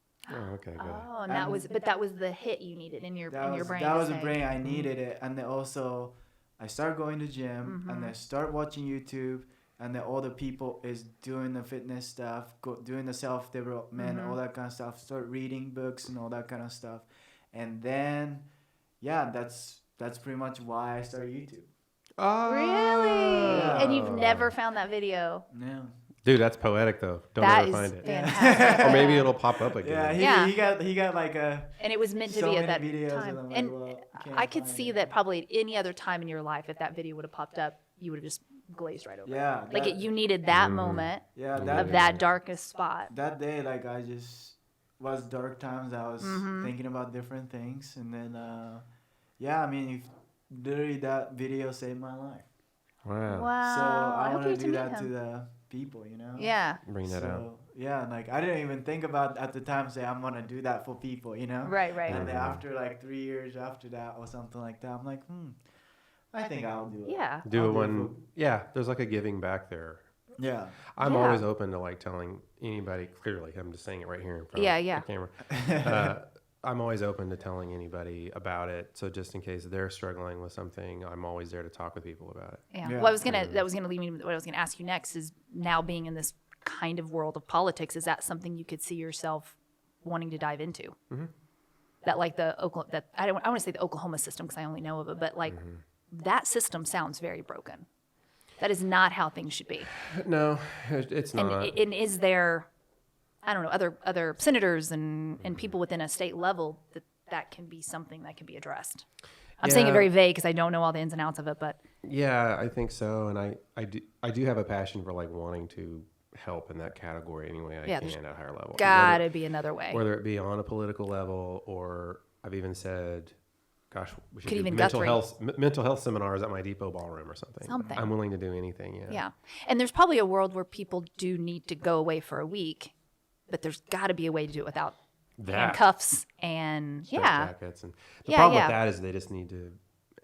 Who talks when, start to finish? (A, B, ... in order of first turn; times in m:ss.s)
0:00.3-0:04.9 A
0:00.3-0:01.0 B
0:01.3-0:01.6 C
0:03.3-0:18.5 C
0:07.6-0:08.2 A
0:14.0-0:14.4 A
0:19.0-0:21.7 C
0:22.2-0:24.5 B
0:22.4-0:25.5 A
0:23.4-0:24.4 C
0:25.5-0:25.9 C
0:26.2-0:30.3 B
0:27.4-0:29.4 A
0:28.0-0:35.1 C
0:30.2-0:30.5 A
0:31.8-0:43.1 A
0:39.3-0:40.1 C
0:40.5-0:42.2 B
0:41.3-0:42.2 C
0:43.1-0:48.9 C
0:46.2-0:46.7 A
0:49.4-0:52.5 C
0:53.0-0:53.5 B
0:53.3-0:55.1 A
0:53.6-1:05.6 C
0:56.4-0:56.8 A
0:56.9-0:57.5 B
1:01.6-1:02.3 A
1:02.1-1:02.6 B
1:06.3-1:08.2 C
1:07.0-1:07.5 A
1:07.4-1:10.1 B
1:10.4-1:10.8 C
1:10.9-1:23.6 B
1:11.0-1:11.4 A
1:14.5-1:15.1 A
1:15.5-1:16.1 C
1:22.7-1:31.0 A
1:22.8-1:23.2 C
1:32.0-1:35.6 A
1:35.5-1:35.8 B
1:36.1-1:37.9 A
1:38.6-1:39.9 A
1:40.0-1:41.8 B
1:41.4-1:42.7 A
1:43.4-1:49.1 A
1:45.4-1:45.7 B
1:49.6-1:51.8 A
1:49.6-1:50.1 B
1:52.0-1:59.3 B
1:57.9-1:58.2 A
1:58.7-2:00.0 A
1:59.9-2:03.4 B
2:03.9-2:09.2 B
2:04.5-2:05.2 A
2:07.6-2:08.2 A
2:07.8-2:08.1 C
2:09.1-2:12.9 A
2:13.5-2:17.6 A
2:15.4-2:15.9 B
2:17.1-2:19.8 B
2:18.2-2:18.8 A